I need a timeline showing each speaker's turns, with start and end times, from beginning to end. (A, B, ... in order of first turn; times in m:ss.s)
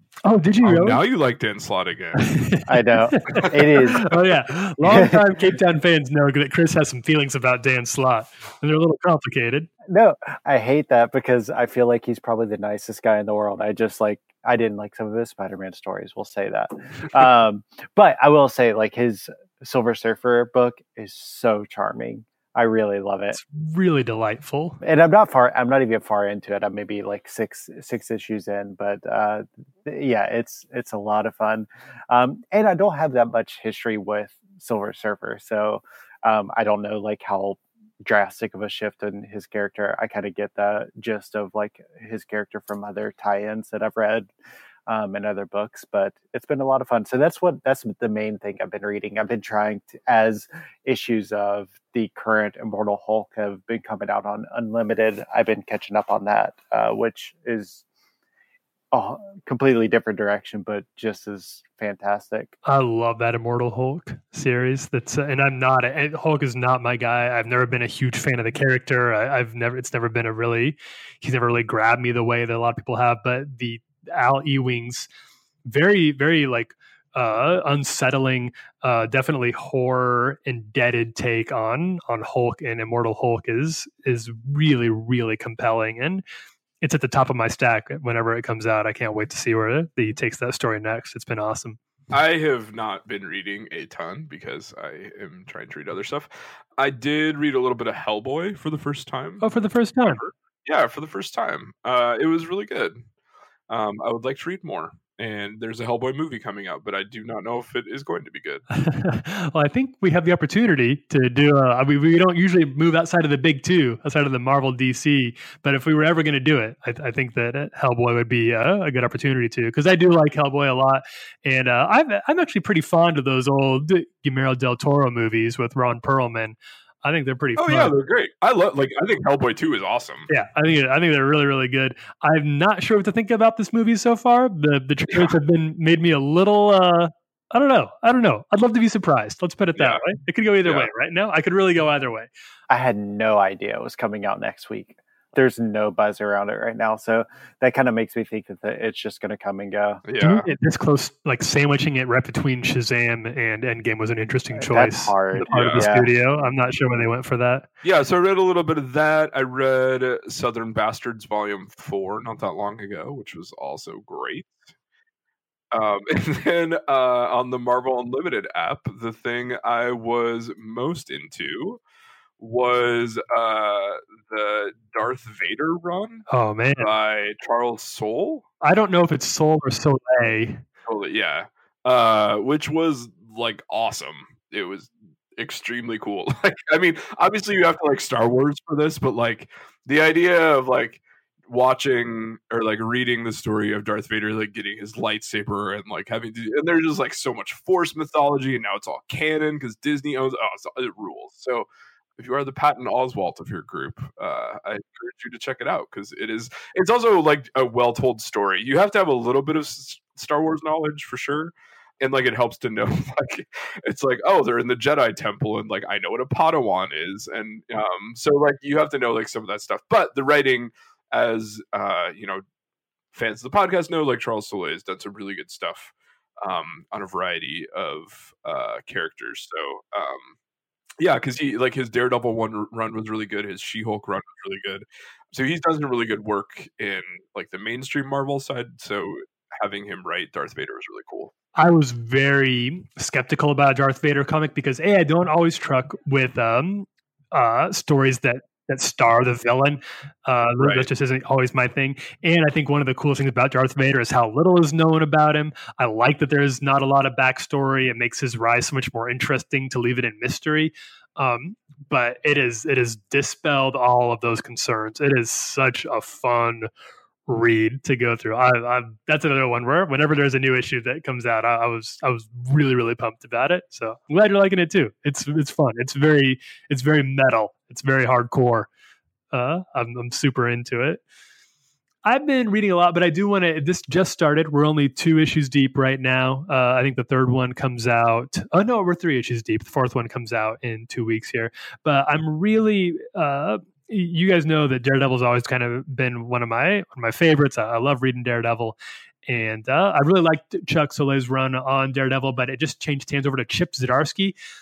0:00.2-0:01.0 A
0:00.6-0:02.3 B
0:02.2-0:09.7 A
0:02.7-0:04.1 C
0:03.3-0:03.6 B
0:04.8-0:05.2 C
0:09.9-0:23.4 C
0:23.3-0:24.8 A
0:24.8-0:44.3 C
0:44.9-0:57.8 C
0:58.9-1:02.5 C
1:02.7-1:15.1 A
1:15.7-1:26.2 A
1:26.8-1:31.8 A
1:32.1-1:43.0 B
1:39.4-1:40.2 A
1:43.7-1:48.6 B
1:48.7-2:07.9 A
2:07.6-2:10.3 B
2:10.3-2:22.3 A
2:19.8-2:20.0 B
2:20.6-2:20.9 B
2:22.7-2:30.0 C
2:30.0-2:30.5 B
2:30.2-2:37.7 A
2:34.6-2:36.1 C
2:35.5-2:35.9 B
2:37.8-2:44.7 B
2:45.7-2:51.8 B
2:52.4-2:56.3 B
2:56.3-2:56.9 A
2:56.8-2:58.5 B
2:58.6-3:00.6 A
3:00.9-3:42.4 B
3:43.1-3:50.4 B
3:51.0-4:01.3 B
4:01.6-4:26.7 A
4:10.6-4:10.9 B
4:27.3-4:38.7 A
4:39.3-4:41.0 A
4:42.0-5:04.4 A